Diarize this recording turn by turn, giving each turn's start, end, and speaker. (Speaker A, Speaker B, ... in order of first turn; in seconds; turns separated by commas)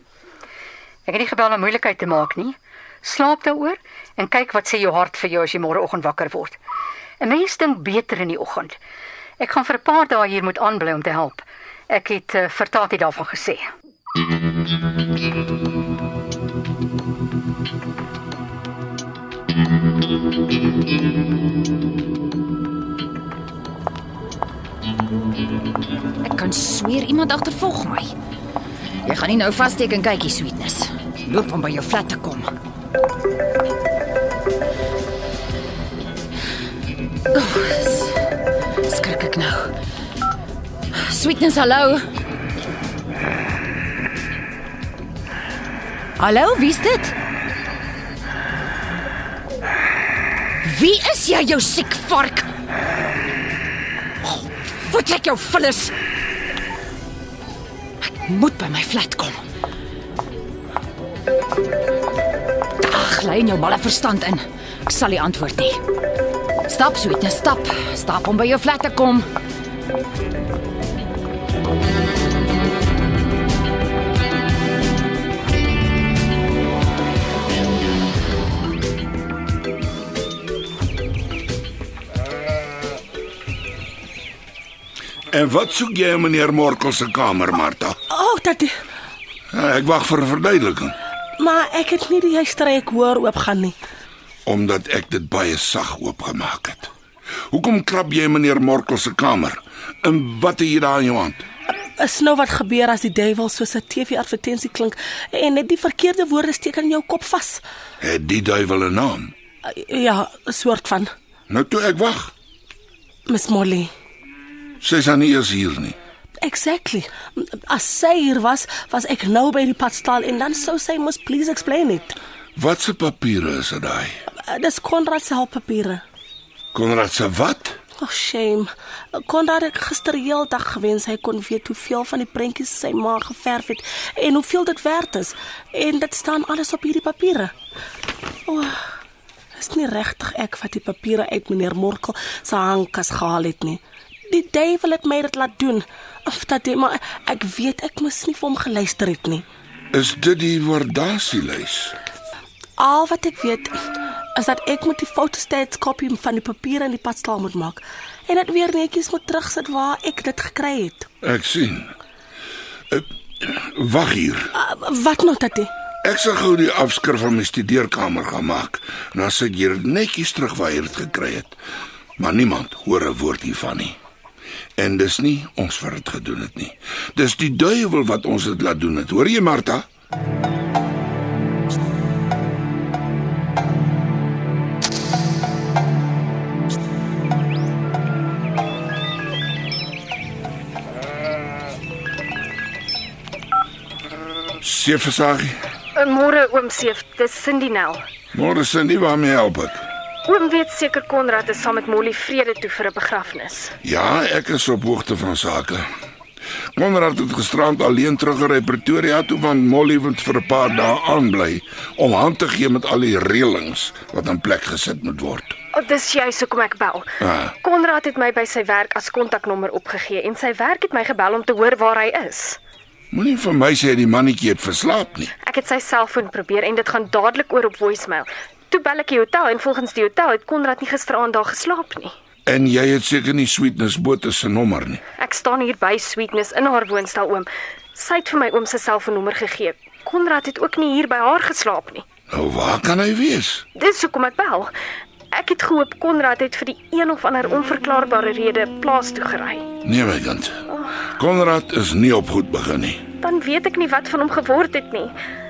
Speaker A: 1.1-6.6, Speaker A: 7.2-8.8, Speaker A: 9.4-13.6, Speaker B: 26.2-28.1, Speaker B: 29.0-32.5, Speaker B: 37.3-38.1, Speaker B: 38.9-39.7, Speaker B: 41.0-42.0, Speaker B: 46.2-47.1, Speaker B: 50.6-52.5, Speaker B: 54.2-55.9, Speaker B: 58.0-59.4, Speaker B: 62.9-65.8, Speaker B: 66.7-69.3, Speaker C: 85.3-88.0, Speaker D: 88.1-88.7, Speaker C: 89.5-91.0, Speaker D: 91.4-93.8, Speaker C: 94.5-96.9, Speaker C: 97.5-101.4, Speaker D: 102.0-107.6, Speaker C: 108.0-109.3, Speaker D: 109.6-111.1, Speaker C: 111.5-112.3, Speaker D: 113.3-113.9, Speaker C: 114.8-116.0, Speaker D: 116.4-122.2, Speaker C: 122.6-124.2, Speaker D: 124.5-126.0, Speaker C: 126.7-127.8, Speaker D: 128.0-137.5, Speaker D: 138.5-138.9, Speaker D: 139.6-149.4, Speaker C: 149.9-152.0, Speaker D: 152.8-153.7, Speaker D: 154.4-161.1, Speaker C: 161.2-161.9, Speaker C: 162.9-164.5, Speaker D: 164.5-165.7, Speaker C: 166.0-171.6, Speaker C: 172.2-174.0, Speaker C: 174.8-179.9, Speaker C: 194.6-195.6, Speaker E: 195.9-198.0, Speaker C: 198.3-199.8, Speaker E: 200.3-203.7, Speaker C: 203.8-205.9, Speaker C: 206.8-215.6, Speaker E: 215.7-222.6, Speaker C: 217.2-217.5, Speaker C: 223.1-225.3, Speaker E: 225.4-232.1, Speaker C: 232.5-235.0, Speaker E: 235.2-242.1, Speaker C: 242.3-243.7, Speaker E: 243.8-244.7, Speaker E: 245.3-249.7, Speaker C: 249.8-250.6, Speaker E: 250.7-250.9, Speaker C: 251.2-253.0, Speaker E: 253.2-255.1